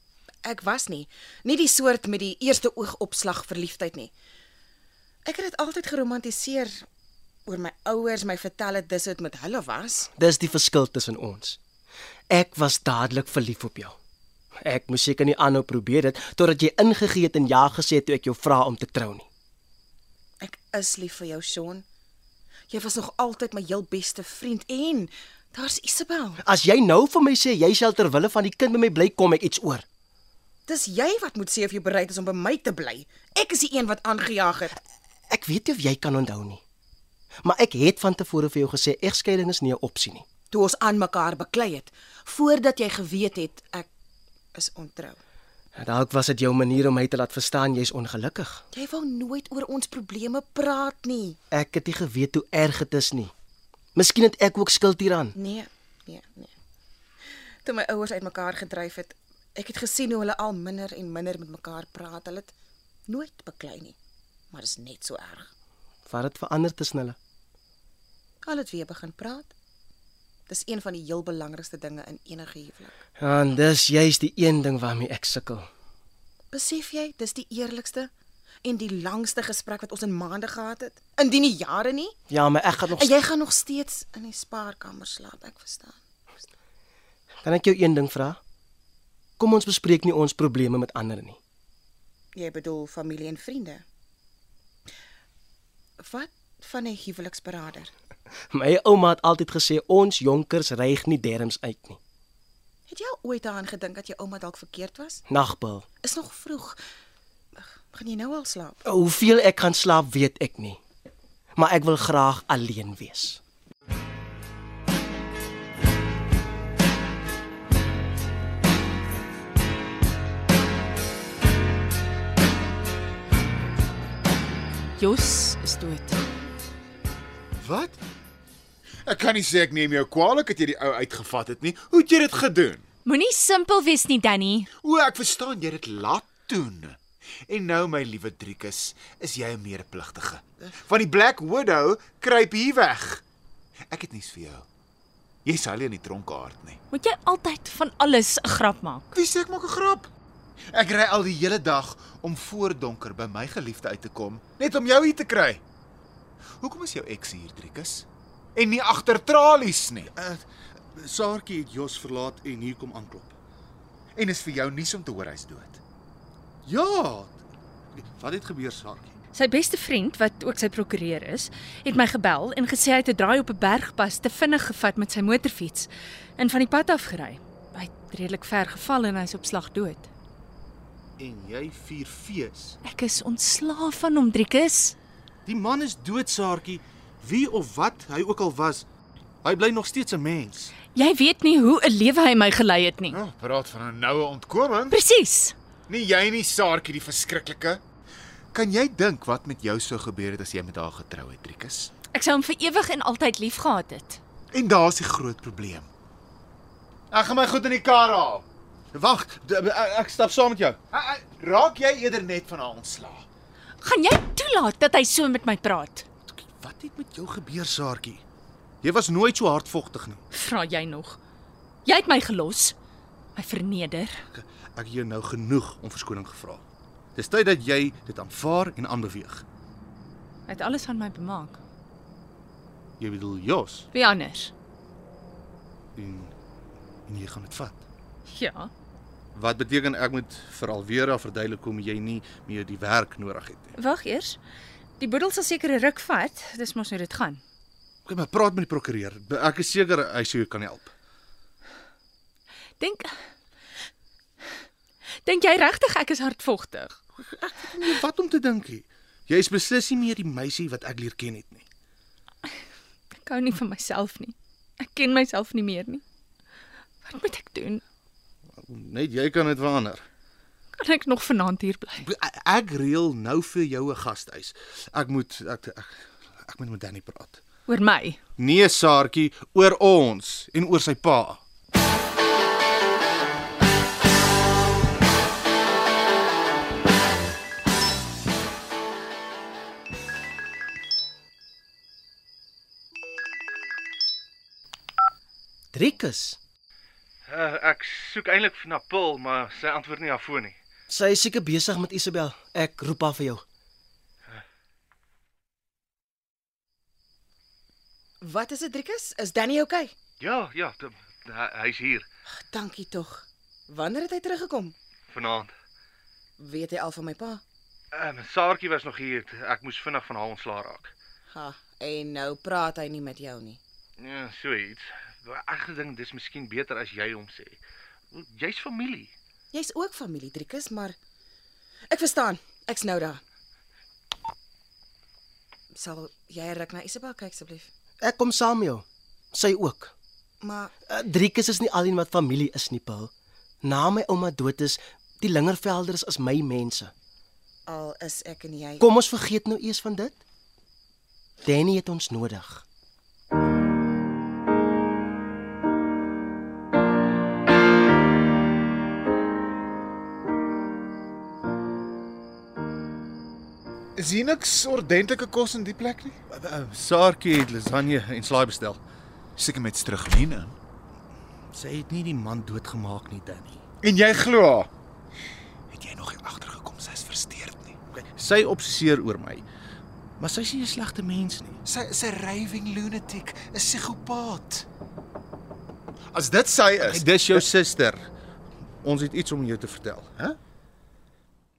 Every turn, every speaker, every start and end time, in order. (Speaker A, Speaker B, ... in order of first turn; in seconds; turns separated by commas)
Speaker A: 0.4-4.1, Speaker A: 5.2-6.8, Speaker A: 7.5-10.1, Speaker B: 10.2-11.6, Speaker B: 12.3-14.0, Speaker B: 14.6-19.3, Speaker A: 20.4-21.9, Speaker A: 22.7-26.4, Speaker B: 26.4-29.9, Speaker A: 30.7-34.8, Speaker B: 35.3-36.6, Speaker B: 37.4-40.2, Speaker A: 40.5-43.9, Speaker A: 44.5-45.2, Speaker B: 45.8-48.6, Speaker A: 48.7-51.4, Speaker B: 51.5-53.3, Speaker B: 54.0-55.4, Speaker A: 55.4-56.5, Speaker A: 57.6-62.5, Speaker A: 63.1-64.0, Speaker C: 63.6-63.9, Speaker A: 64.5-65.5, Speaker B: 66.1-67.2, Speaker A: 68.4-69.5, Speaker A: 70.5-72.9, Speaker B: 73.2-75.7, Speaker A: 76.5-78.1, Speaker A: 78.6-82.1, Speaker B: 82.3-83.1, Speaker A: 83.0-86.0, Speaker B: 87.4-88.4, Speaker B: 89.4-91.4, Speaker A: 92.3-93.8, Speaker A: 96.0-97.9, Speaker B: 98.5-102.0, Speaker A: 102.9-105.2, Speaker B: 105.3-105.9, Speaker A: 106.0-106.8, Speaker A: 107.5-108.8, Speaker B: 108.8-110.8, Speaker B: 111.6-113.4, Speaker D: 125.0-126.2, Speaker E: 127.6-128.0, Speaker C: 129.1-132.8, Speaker D: 133.1-134.7, Speaker C: 134.8-143.2, Speaker C: 143.9-144.7, Speaker C: 145.4-146.8, Speaker D: 146.9-149.1, Speaker C: 149.1-150.1, Speaker C: 150.7-155.6, Speaker C: 156.6-160.1, Speaker E: 160.1-163.3, Speaker C: 164.2-165.8, Speaker E: 166.7-167.4, Speaker E: 168.0-169.2, Speaker D: 169.3-180.1, Speaker E: 181.2-182.8, Speaker D: 182.8-184.9, Speaker E: 185.5-188.8, Speaker E: 189.4-190.8, Speaker D: 190.9-193.2, Speaker C: 193.1-195.0, Speaker D: 194.9-195.6, Speaker C: 195.9-197.8, Speaker C: 198.5-201.9, Speaker D: 202.1-204.2, Speaker C: 204.5-205.9, Speaker C: 207.1-208.5, Speaker E: 208.9-210.8, Speaker C: 210.9-213.3, Speaker D: 213.8-216.1, Speaker E: 216.3-218.2, Speaker E: 218.8-220.2, Speaker D: 220.3-221.2, Speaker D: 221.8-222.8, Speaker D: 223.3-224.2, Speaker E: 224.3-226.6, Speaker E: 227.2-229.4, Speaker D: 230.5-231.6, Speaker E: 233.0-233.9, Speaker D: 233.9-234.5, Speaker E: 236.0-236.3, Speaker E: 237.1-237.8, Speaker D: 238.3-238.7, Speaker E: 239.3-243.8, Speaker D: 243.8-244.4, Speaker D: 245.0-247.4, Speaker E: 248.1-250.9, Speaker D: 252.8-253.2, Speaker D: 255.2-257.0, Speaker E: 257.2-261.6, Speaker D: 263.1-266.0, Speaker D: 267.1-267.8, Speaker E: 268.6-270.1, Speaker D: 270.8-272.1, Speaker E: 272.0-277.4, Speaker D: 277.7-278.2, Speaker E: 278.4-281.4, Speaker B: 295.7-296.4, Speaker E: 297.3-300.6, Speaker B: 300.9-303.4, Speaker A: 308.2-309.9, Speaker E: 310.2-312.1, Speaker A: 312.4-314.8, Speaker E: 315.1-315.5, Speaker A: 316.4-317.4, Speaker E: 317.9-320.9, Speaker A: 321.3-323.6, Speaker E: 324.0-327.6, Speaker E: 328.1-329.1, Speaker A: 329.5-331.0, Speaker A: 331.9-333.2, Speaker A: 335.7-337.7, Speaker B: 338.0-339.9, Speaker A: 340.4-340.7, Speaker B: 340.9-343.1, Speaker B: 343.6-346.9, Speaker A: 347.7-348.8, Speaker C: 348.0-348.5, Speaker B: 348.8-350.2, Speaker B: 351.4-352.6, Speaker C: 364.0-366.2, Speaker E: 366.3-368.8, Speaker C: 369.4-370.6, Speaker E: 371.5-373.6, Speaker C: 373.8-374.7, Speaker C: 375.7-377.8, Speaker E: 377.9-379.5, Speaker E: 380.2-381.6, Speaker C: 381.6-384.7, Speaker C: 386.1-387.5, Speaker E: 386.8-388.1, Speaker E: 388.8-390.1